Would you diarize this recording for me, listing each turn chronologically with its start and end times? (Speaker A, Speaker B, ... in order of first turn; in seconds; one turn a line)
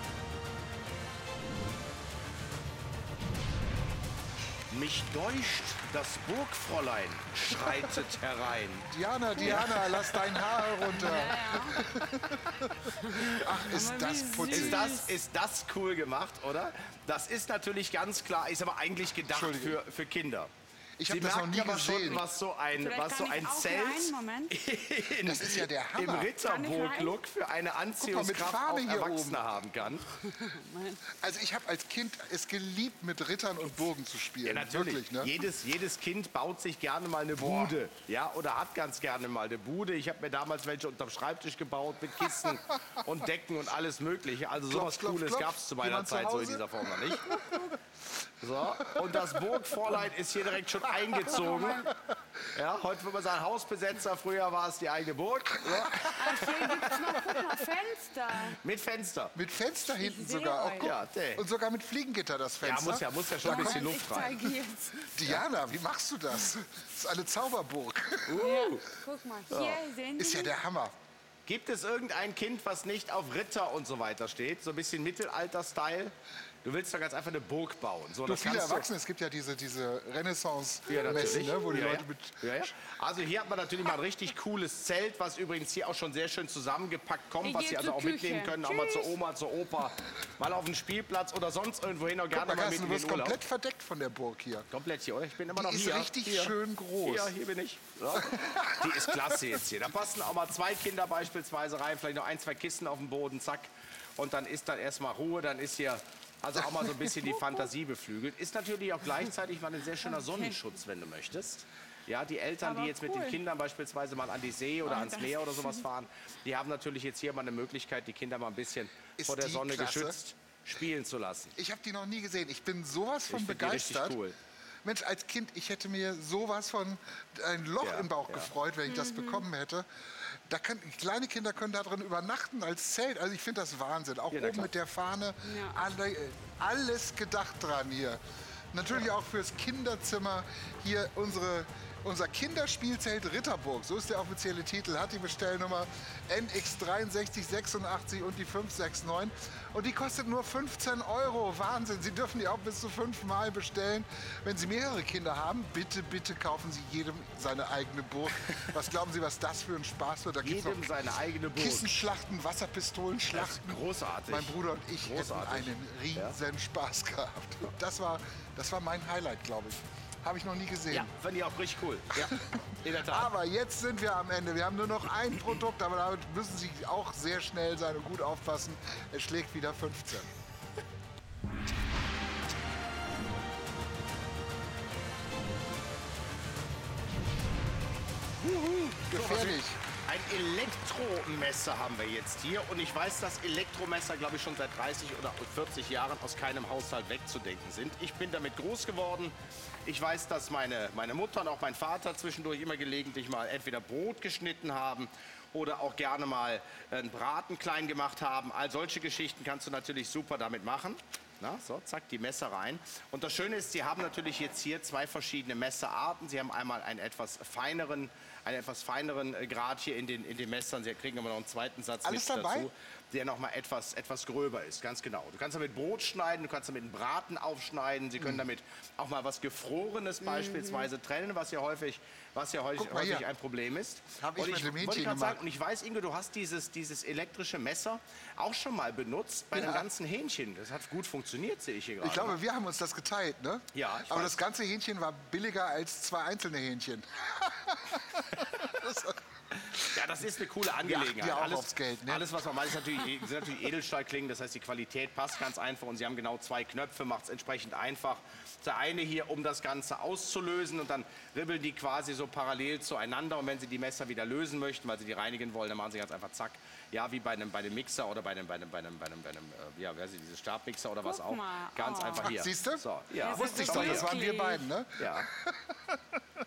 Speaker A: 4.7-11.2
Speaker B: 8.9-14.9
Speaker C: 10.8-11.9
Speaker C: 12.9-15.2
Speaker A: 13.2-13.4
Speaker A: 14.4-20.5
Speaker B: 19.3-19.8
Speaker B: 21.0-22.2
Speaker A: 21.1-30.1
Speaker C: 22.1-24.6
Speaker B: 25.2-26.3
Speaker C: 26.4-27.2
Speaker B: 28.0-29.5
Speaker C: 30.2-31.0
Speaker B: 31.2-35.3
Speaker A: 34.5-47.7
Speaker B: 37.4-37.8
Speaker B: 44.7-47.8
Speaker A: 48.4-51.9
Speaker B: 48.9-49.4
Speaker C: 51.2-51.9
Speaker A: 52.5-56.7
Speaker B: 55.6-57.5
Speaker C: 56.1-58.6
Speaker A: 58.6-59.3
Speaker B: 59.4-64.0
Speaker C: 60.0-60.9
Speaker A: 60.8-61.4
Speaker A: 62.6-64.4
Speaker C: 63.4-65.2
Speaker B: 65.2-68.5
Speaker A: 68.3-68.9
Speaker C: 68.4-70.5
Speaker A: 69.5-69.8
Speaker B: 70.2-70.9
Speaker A: 71.5-78.9
Speaker B: 78.2-82.7
Speaker A: 80.9-93.4
Speaker C: 87.4-89.1
Speaker B: 92.3-94.7
Speaker A: 94.7-121.6
Speaker B: 95.5-97.3
Speaker B: 98.1-99.5
Speaker C: 110.2-110.5
Speaker C: 112.6-113.4
Speaker C: 114.9-115.8
Speaker B: 119.2-120.2
Speaker B: 121.6-124.2
Speaker A: 123.3-124.4
Speaker B: 124.8-138.2
Speaker A: 127.8-128.5
Speaker C: 128.9-129.4
Speaker A: 134.3-134.7
Speaker C: 135.4-135.8
Speaker B: 138.7-161.0
Speaker A: 160.4-162.0
Speaker B: 161.5-171.1
Speaker A: 163.3-166.4
Speaker A: 170.9-173.3
Speaker B: 172.1-180.3
Speaker A: 188.4-242.4
Speaker B: 189.1-189.8
Speaker B: 222.0-222.7
Speaker C: 230.2-230.9
Speaker B: 232.8-233.2
Speaker B: 234.2-235.4
Speaker B: 239.5-239.9
Speaker B: 242.0-249.2
Speaker A: 243.7-244.4
Speaker A: 249.6-274.2
Speaker B: 249.7-250.0
Speaker B: 250.8-252.3
Speaker C: 271.0-272.3
Speaker B: 272.2-276.2
Speaker C: 273.2-274.7
Speaker A: 275.0-275.3